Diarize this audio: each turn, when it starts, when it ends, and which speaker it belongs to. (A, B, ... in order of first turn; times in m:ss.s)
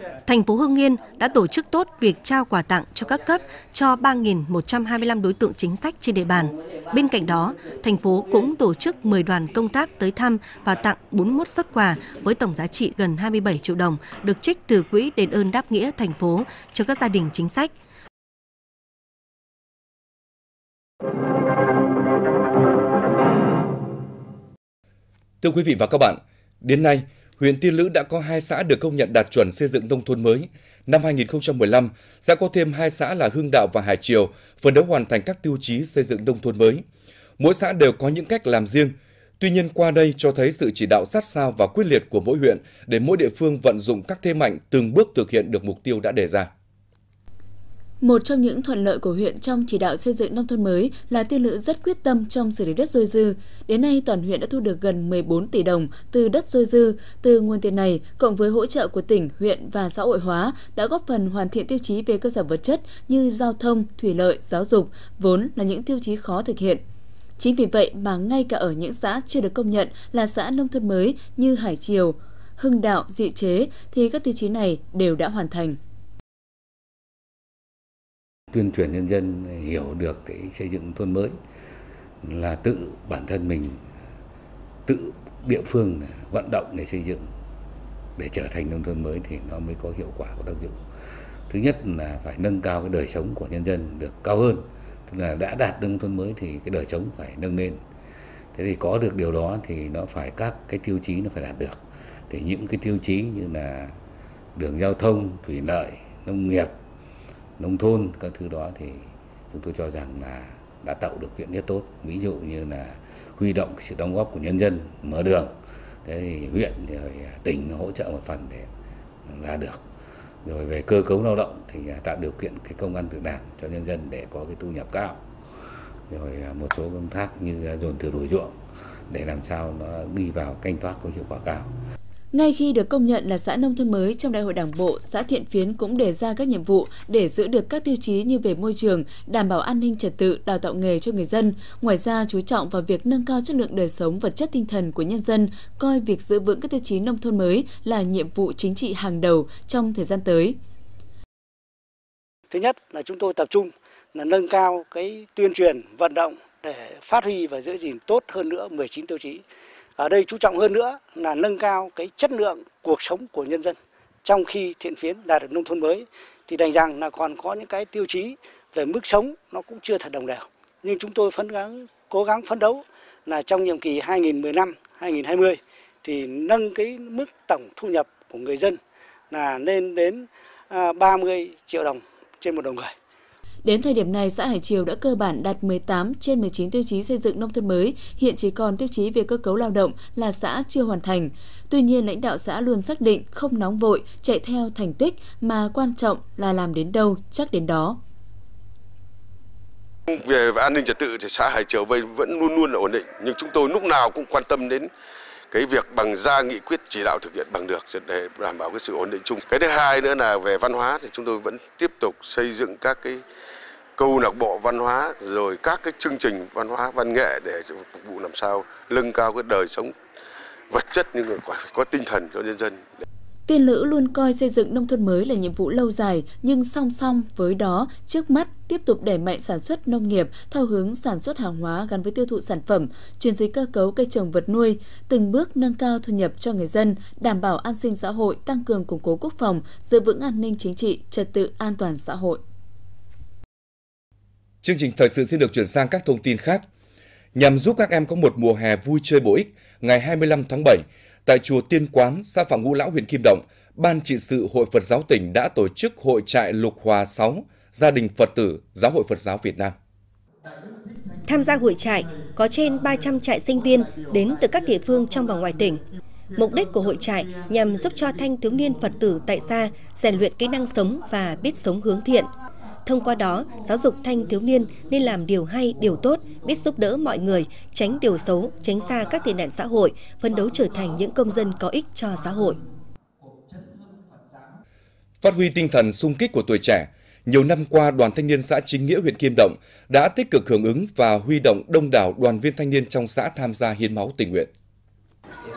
0:00.3-0:17.7 A
0:25.4-0:36.8 B
0:37.4-0:46.5 B
0:48.0-1:06.8 C
1:07.4-1:15.8 C
1:18.5-1:21.4 D
1:22.2-1:23.9 D
1:24.9-1:27.3 D
1:28.2-1:30.9 D
1:31.5-1:37.8 D
1:38.5-1:44.0 D
1:44.6-1:46.8 D
1:47.6-1:58.7 D
1:59.3-1:59.8 D
2:00.4-2:05.2 D
2:06.1-2:11.7 D
2:12.3-2:30.6 C
2:32.5-2:39.4 E
2:40.0-2:58.8 E
2:59.3-3:02.9 E
3:03.6-3:18.0 C
3:20.1-3:24.9 F
3:25.5-3:33.2 F
3:34.0-3:39.9 F
3:40.7-3:42.9 F
3:43.5-4:02.4 C
4:04.6-4:06.6 B
4:07.4-4:19.8 B
4:21.2-4:25.8 A
4:26.3-4:32.3 A
4:32.8-4:42.6 A
4:45.2-4:54.5 B